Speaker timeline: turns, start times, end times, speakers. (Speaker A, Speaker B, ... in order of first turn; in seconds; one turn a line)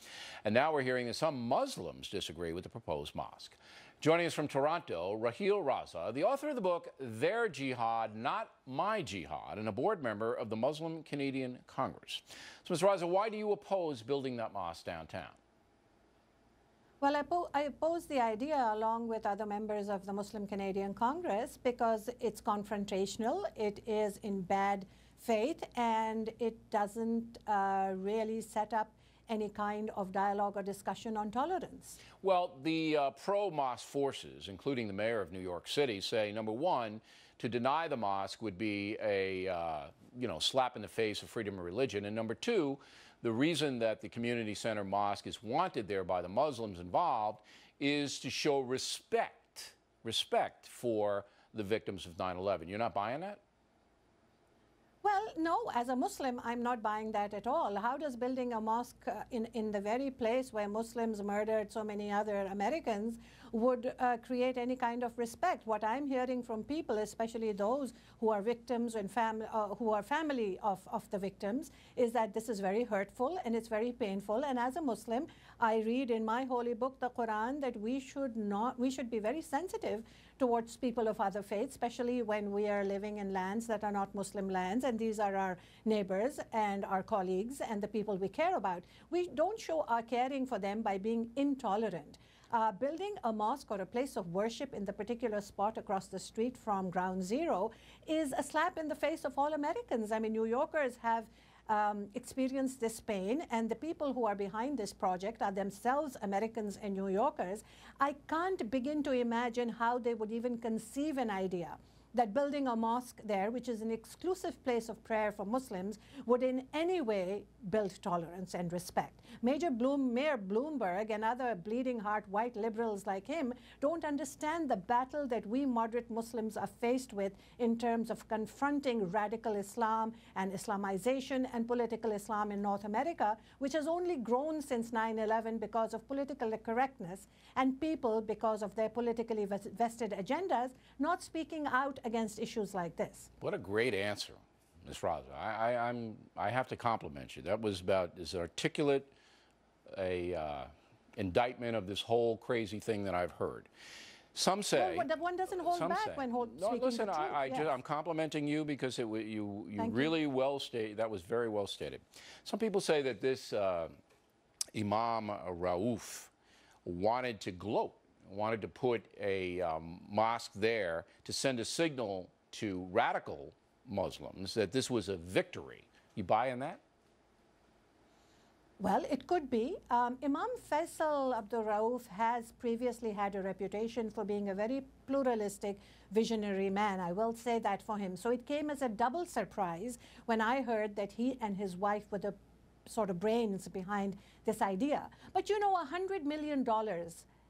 Speaker A: 0.5-15.4
Speaker B: 17.0-32.0
Speaker A: 32.2-53.4
Speaker B: 55.0-143.3
Speaker A: 143.4-149.1
Speaker A: 149.9-153.7
Speaker A: 154.3-163.9
Speaker B: 154.7-157.8
Speaker B: 159.8-160.1
Speaker A: 164.7-166.3
Speaker A: 166.8-176.8
Speaker B: 178.8-197.3